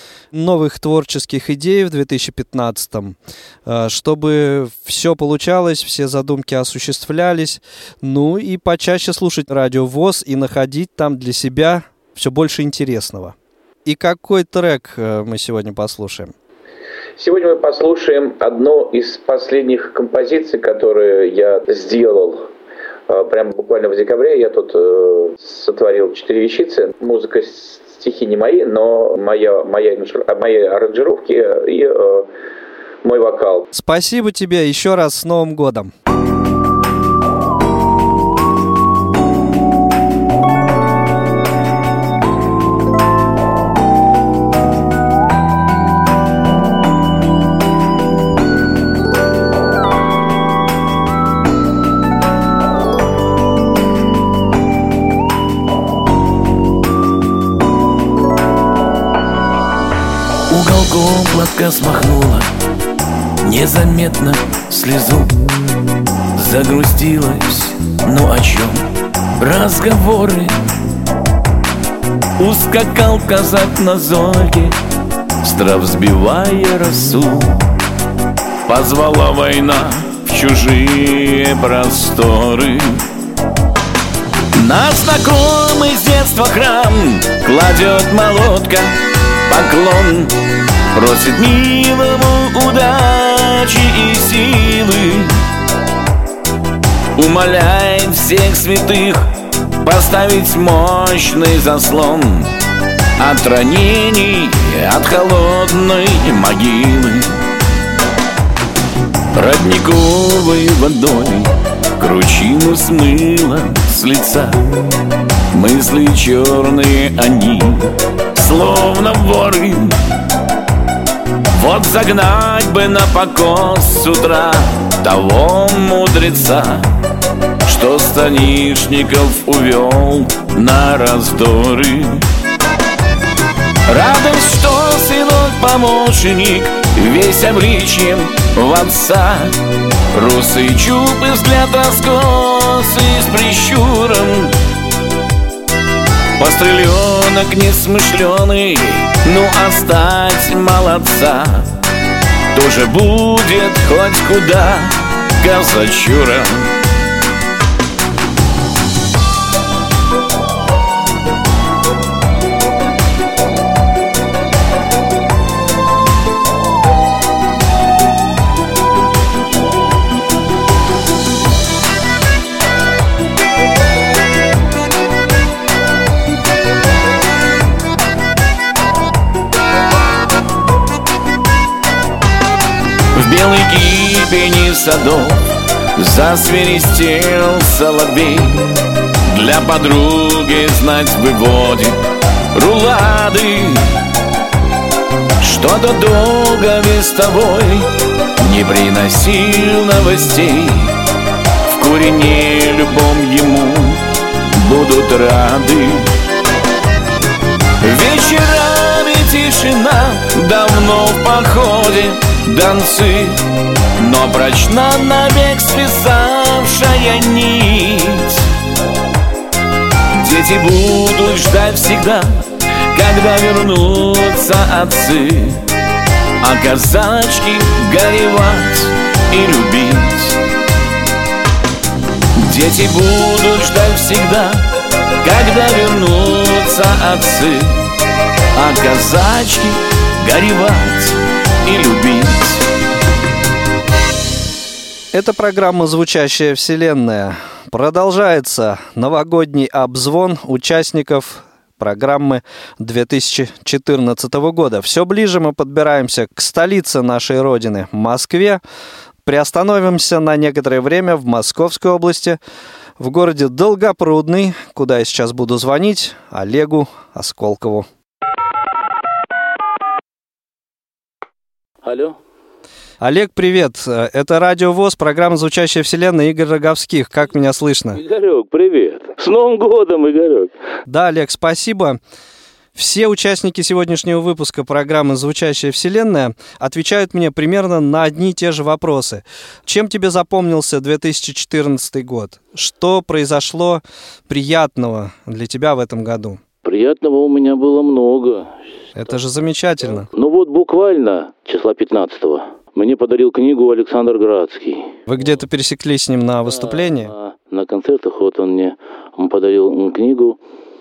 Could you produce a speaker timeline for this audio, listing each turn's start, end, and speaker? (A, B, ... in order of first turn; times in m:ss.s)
0:00.3-0:16.3 A
0:17.2-0:22.5 B
0:23.1-0:32.3 B
0:33.0-0:33.7 B
0:33.7-0:35.9 A
1:00.5-1:02.5 C
1:03.4-1:05.3 C
1:06.4-1:08.8 C
1:09.4-1:10.5 C
1:12.4-1:14.7 C
1:15.4-1:17.5 C
1:18.7-1:23.0 C
1:24.6-1:28.9 C
1:29.5-1:30.3 C
1:30.9-1:35.3 C
1:37.2-1:39.2 C
1:39.8-1:42.5 C
1:43.2-1:47.3 C
1:49.3-1:54.6 C
1:55.5-1:57.8 C
1:58.4-2:00.0 C
2:01.6-2:06.8 C
2:07.6-2:12.2 C
2:13.9-2:19.5 C
2:20.1-2:24.5 C
2:26.4-2:31.7 C
2:32.5-2:36.7 C
3:03.2-3:05.4 C
3:06.0-3:08.6 C
3:09.3-3:12.0 C
3:12.5-3:13.8 C
3:15.4-3:17.9 C
3:18.4-3:20.9 C
3:21.7-3:24.0 C
3:24.6-3:26.1 C
3:27.8-3:33.4 C
3:34.0-3:38.4 C
3:40.2-3:42.3 C
3:42.9-3:45.6 C
3:46.4-3:50.4 C
3:52.5-3:54.6 C
3:55.2-3:57.8 C
3:58.6-4:02.6 C
4:05.1-4:18.6 A
4:19.2-4:22.4 A
4:23.0-4:27.9 A
4:31.8-4:32.2 D
4:33.0-4:38.0 A
4:37.9-4:40.5 D
4:40.9-4:42.0 A
4:42.7-4:56.4 A
4:56.6-4:59.2 D
4:58.9-5:00.1 A
4:59.8-5:05.4 D
5:05.1-5:07.1 A
5:06.4-5:10.4 D